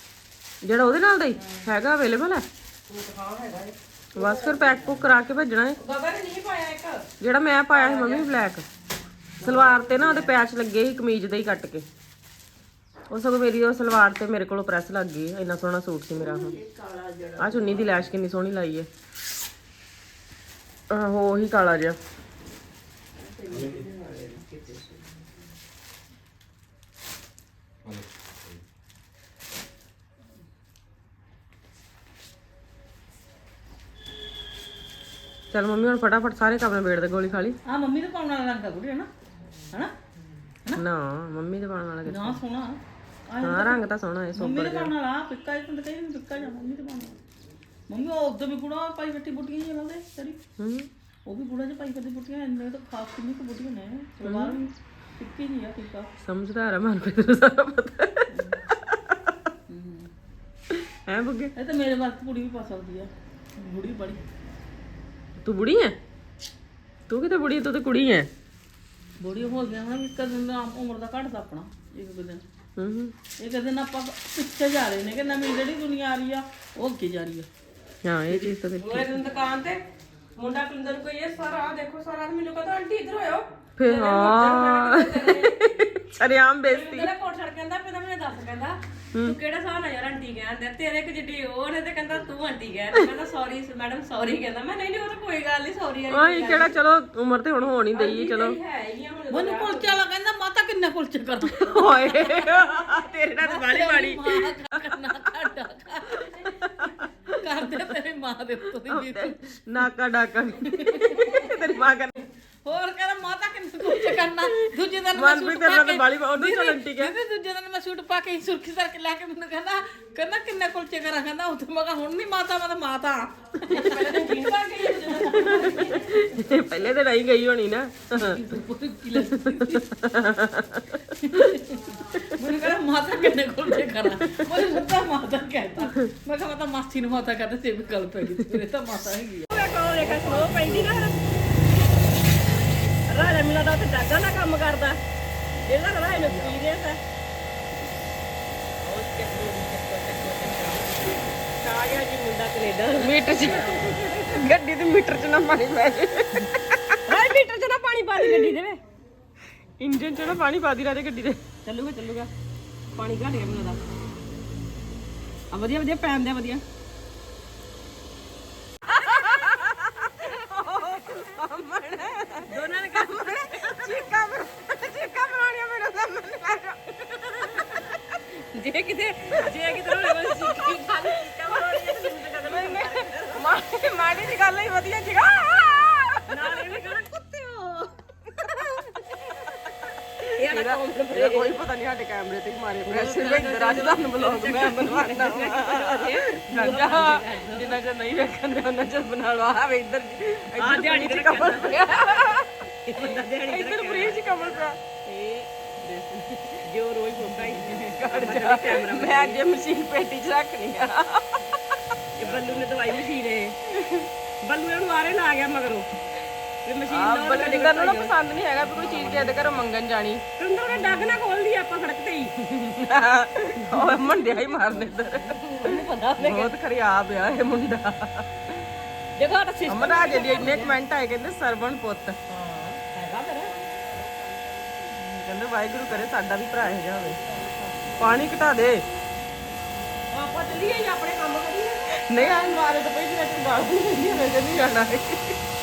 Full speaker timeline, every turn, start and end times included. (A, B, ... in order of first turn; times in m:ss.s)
0:00.6-0:02.4 A
0:01.4-0:01.7 B
0:02.9-0:05.0 B
0:04.1-0:05.8 A
0:05.8-0:07.0 B
0:07.2-0:08.6 A
0:07.7-0:08.2 B
0:09.4-0:10.4 B
0:09.4-0:11.8 A
0:13.1-0:16.5 A
0:16.1-0:18.1 B
0:17.4-0:18.9 A
0:20.9-0:22.0 A
0:23.2-0:25.4 B
0:35.5-0:37.6 A
0:37.6-0:39.1 C
0:40.8-0:42.4 A
0:42.0-0:42.8 C
0:43.3-0:43.8 C
0:43.4-0:44.9 A
0:44.3-0:47.2 C
0:47.9-0:50.4 C
0:50.6-0:50.9 A
0:51.3-0:56.1 C
0:54.2-0:54.6 A
0:56.2-0:58.2 A
0:58.3-0:58.6 C
0:58.9-0:59.3 A
0:59.7-1:00.1 C
1:01.0-1:01.5 A
1:01.6-1:04.2 C
1:05.4-1:05.9 A
1:07.1-1:08.3 A
1:09.2-1:12.4 C
1:12.8-1:13.1 A
1:13.4-1:17.5 C
1:18.0-1:19.1 A
1:18.8-1:19.8 B
1:20.4-1:25.9 B
1:23.8-1:27.1 A
1:26.7-1:36.7 B
1:36.1-1:38.6 A
1:37.9-1:40.0 B
1:39.3-1:41.7 C
1:41.5-1:44.4 A
1:41.7-1:43.0 B
1:43.4-1:49.4 C
1:46.8-1:47.3 A
1:48.8-1:52.2 A
1:50.7-1:51.5 C
1:52.6-2:06.3 C
1:55.1-1:57.1 A
2:03.7-2:06.0 B
2:05.5-2:08.4 A
2:08.2-2:09.8 C
2:09.4-2:11.5 A
2:11.3-2:19.4 C
2:12.1-2:12.5 A
2:14.2-2:14.5 A
2:19.5-2:21.2 B
2:20.1-2:20.8 A
2:23.1-2:25.0 B
2:25.6-2:27.0 B
2:28.8-2:33.8 B
2:33.0-2:36.8 A
2:37.1-2:38.8 B
2:39.8-2:41.4 A
2:41.6-2:42.3 B
2:42.9-2:43.8 B
2:45.5-2:46.6 B
2:49.0-2:56.9 A
2:52.5-2:53.6 B
2:57.4-2:58.0 A
2:58.5-3:03.4 B
2:59.7-3:01.0 A
3:02.3-3:06.4 A
3:06.3-3:08.0 B
3:10.3-3:11.5 B
3:10.4-3:24.8 A
3:12.8-3:17.8 B
3:20.6-3:21.8 B
3:22.9-3:29.4 B
3:27.8-3:31.4 A
3:32.2-3:33.6 B
3:32.3-3:32.7 A
3:34.4-3:35.9 B
3:36.6-3:38.1 B
3:36.9-3:41.2 A
3:38.7-3:39.4 B
3:40.4-3:42.3 B
3:42.4-3:48.3 A
3:43.6-3:46.5 B
3:49.2-3:50.7 B
3:49.7-3:52.2 A
3:52.3-3:54.8 B
3:54.9-3:57.2 A
3:57.2-3:58.1 B
3:58.0-3:58.8 A
4:00.1-4:02.6 B
4:02.0-4:05.3 A